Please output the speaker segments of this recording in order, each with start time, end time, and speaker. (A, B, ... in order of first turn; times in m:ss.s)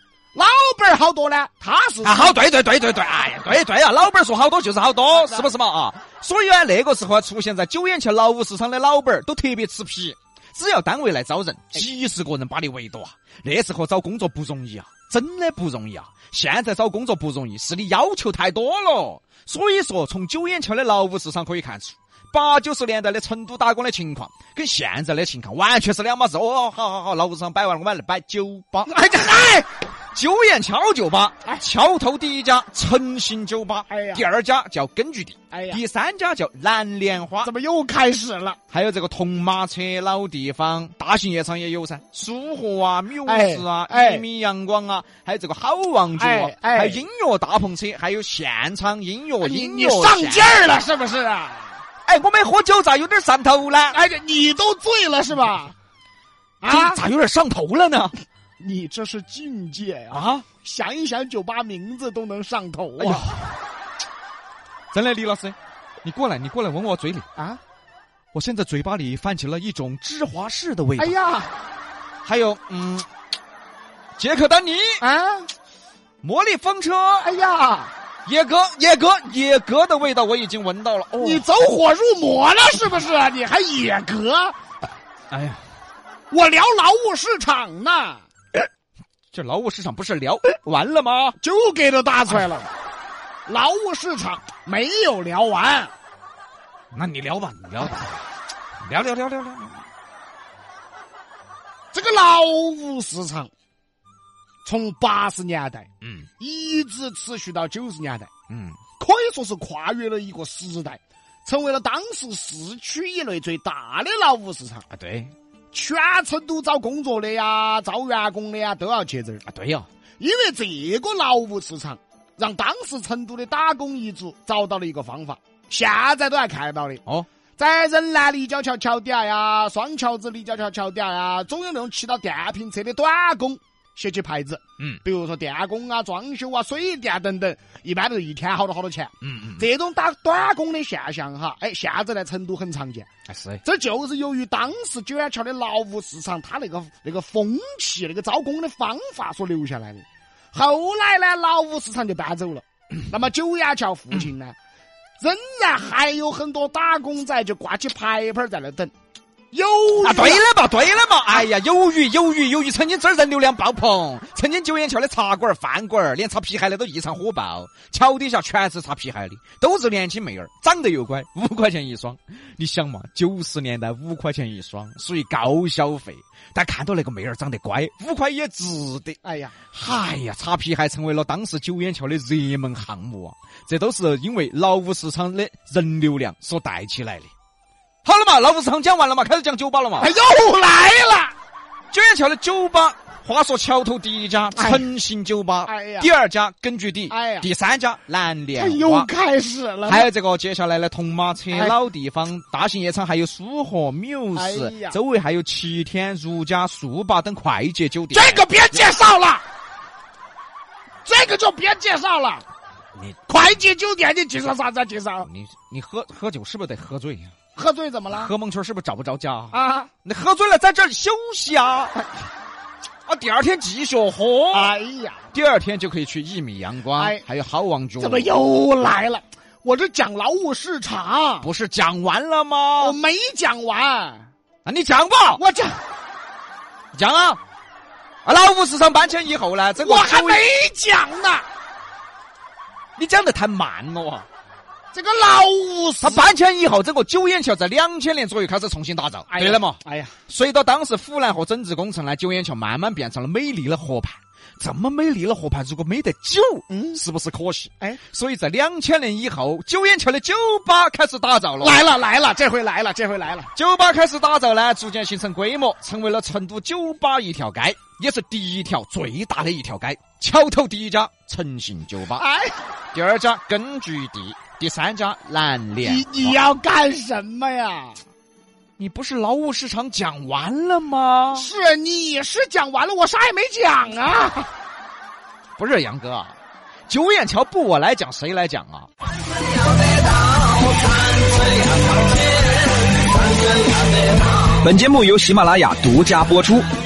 0:00.3-0:02.4 A
0:02.0-0:28.9 B
0:05.1-0:05.5 A
0:28.9-0:29.7 A
0:30.1-0:37.5 B
0:33.9-0:34.3 A
0:35.5-0:35.8 A
0:37.4-0:38.6 A
0:38.7-0:50.6 B
0:43.2-0:44.2 A
0:46.2-0:47.0 A
0:49.4-0:51.8 A
0:52.1-0:54.0 B
0:53.9-0:55.8 A
0:56.6-0:57.0 A
0:56.6-0:58.2 B
0:58.6-1:03.3 A
1:00.1-1:00.4 B
1:03.0-1:03.5 B
1:04.9-1:07.2 B
1:08.3-1:11.2 B
1:11.0-1:11.6 A
1:12.2-1:13.1 B
1:14.2-1:15.0 B
1:15.0-1:15.5 A
1:16.2-1:17.3 B
1:17.2-1:17.9 A
1:18.2-1:21.5 B
1:21.2-1:24.6 A
1:25.3-1:25.6 B
1:26.3-1:28.2 A
1:29.3-1:31.4 B
1:31.4-1:32.7 A
1:33.5-1:35.9 A
1:36.9-1:38.2 B
1:38.8-1:39.8 B
1:41.9-1:43.5 A
1:44.6-1:45.9 A
1:46.0-1:46.3 B
1:46.4-1:48.3 A
1:48.5-1:48.8 B
1:49.0-1:54.8 A
1:54.9-1:55.3 B
1:55.7-1:59.4 A
1:59.5-1:59.9 B
2:00.2-2:07.0 A
2:07.6-2:23.1 A
2:19.2-2:19.6 B
2:23.3-2:23.6 B
2:23.6-2:34.6 A
2:35.2-2:38.9 A
2:39.5-2:40.4 A
2:40.0-2:59.2 B
2:59.2-2:59.6 A
2:59.7-3:07.3 B
3:08.0-3:10.1 B
3:10.0-3:11.4 A
3:11.9-3:19.1 B
3:14.6-3:14.9 A
3:15.6-3:16.1 A
3:17.1-3:17.5 A
3:18.6-3:20.1 A
3:19.8-3:28.8 B
3:24.4-3:25.0 A
3:28.1-3:29.4 A
3:31.0-3:32.5 A
3:33.3-3:35.3 A
3:35.2-3:37.3 B
3:37.6-3:38.3 A
3:38.1-3:41.9 B
3:39.5-3:39.9 A
3:43.1-3:44.7 B
3:44.5-3:45.2 A
3:45.3-3:48.3 B
3:47.0-3:47.2 A
3:48.0-3:51.5 A
3:51.4-3:53.0 B
3:52.8-3:54.3 A
3:54.6-3:55.4 B
3:55.4-3:55.8 A
3:56.9-3:57.4 B
3:58.2-4:00.4 B
3:59.8-4:01.5 A
4:03.0-4:04.2 B
4:04.9-4:06.3 A
4:06.0-4:21.9 B
4:09.3-4:10.1 A
4:16.7-4:17.0 A
4:21.6-4:23.5 A
4:23.6-4:32.2 B
4:32.1-4:32.7 A
4:32.9-4:36.4 B
4:35.8-4:38.0 A
4:38.8-4:41.5 B
4:41.3-4:44.5 A
4:45.6-4:46.4 B
4:46.9-4:48.9 B
4:54.6-4:56.6 C